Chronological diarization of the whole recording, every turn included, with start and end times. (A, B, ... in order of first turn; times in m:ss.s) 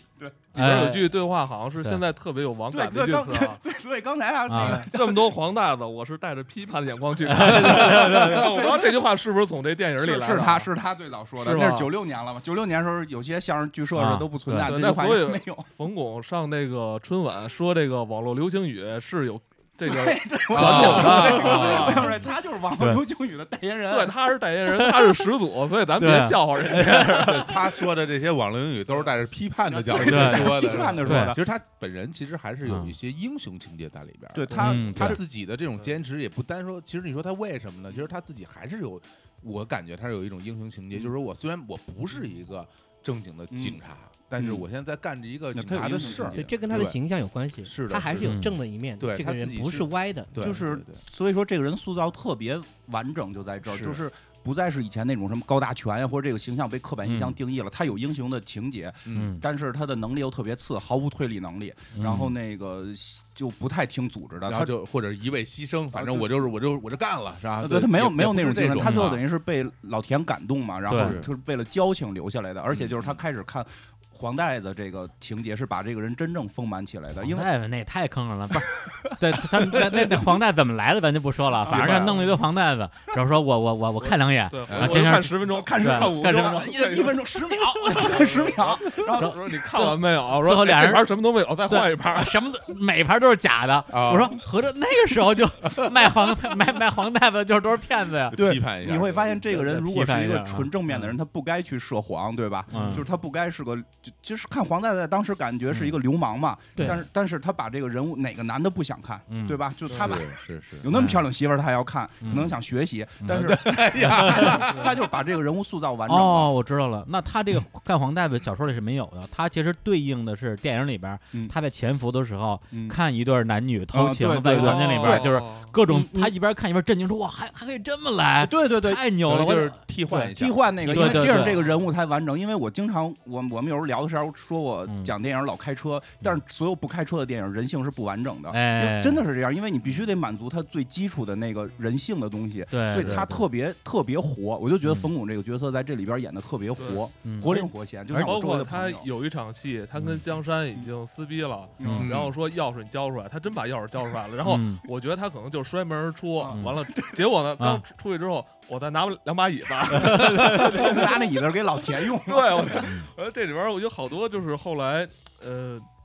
0:00.5-0:03.6 A
0:00.5-0:01.1 B
0:02.7-0:05.3 C
0:04.5-0:04.9 B
0:04.6-0:10.7 A
0:07.3-0:08.4 B
0:07.5-0:08.9 C
0:10.0-0:15.7 C
0:11.4-0:11.9 A
0:13.9-0:14.7 B
0:14.6-0:22.1 A
0:19.8-0:24.1 C
0:20.5-0:22.1 D
0:23.9-0:27.5 A
0:24.7-0:25.0 B
0:26.0-0:27.2 B
0:27.2-0:47.0 D
0:29.7-0:31.4 C
0:30.0-0:31.4 B
0:32.6-0:32.9 B
0:34.3-0:35.2 C
0:34.6-0:35.2 B
0:43.5-0:43.8 C
0:44.4-0:44.6 C
0:45.5-0:46.6 C
0:46.3-0:50.3 E
0:47.6-0:48.4 D
0:48.2-0:48.6 B
0:49.0-0:51.0 D
0:50.4-1:04.7 C
0:53.7-0:54.0 D
0:57.0-0:57.3 B
0:59.1-0:59.3 D
0:59.1-0:59.4 B
1:01.9-1:02.3 B
1:04.5-1:09.2 D
1:05.9-1:06.4 C
1:07.6-1:17.5 C
1:08.8-1:09.2 B
1:10.9-1:11.2 B
1:10.9-1:11.3 D
1:12.7-1:13.2 D
1:17.2-1:26.6 B
1:18.8-1:20.1 C
1:21.6-1:22.2 C
1:21.6-1:22.2 D
1:22.0-1:22.4 A
1:24.0-1:32.4 A
1:24.7-1:25.0 D
1:25.4-1:30.0 C
1:30.4-1:31.1 B
1:31.7-1:38.4 B
1:33.9-1:34.4 D
1:38.3-1:39.5 D
1:38.3-1:56.5 C
1:39.5-1:41.0 B
1:42.7-1:43.0 B
1:46.8-1:47.0 E
1:49.3-1:49.6 B
1:49.9-1:50.2 A
1:49.9-1:50.9 D
1:50.9-1:51.2 B
1:52.2-1:52.5 B
1:53.2-1:54.9 D
1:54.0-1:54.6 B
1:56.1-2:10.3 B
2:02.7-2:03.0 C
2:03.9-2:05.3 C
2:04.4-2:05.8 A
2:05.8-2:06.3 C
2:08.4-2:09.0 C
2:09.2-2:11.5 D
2:10.3-2:29.1 C
2:10.8-2:11.6 B
2:14.9-2:15.1 B
2:18.5-2:19.2 B
2:22.7-2:23.4 B
2:24.8-2:25.1 B
2:26.8-2:27.1 A
2:27.2-2:28.3 B
2:28.1-2:41.3 A
2:31.8-2:32.1 C
2:31.9-2:32.3 D
2:34.4-2:34.8 B
2:36.4-2:37.2 C
2:36.5-2:36.8 B
2:39.9-2:40.9 B
2:40.0-2:42.9 C
2:42.1-2:45.8 A
2:42.8-2:43.1 B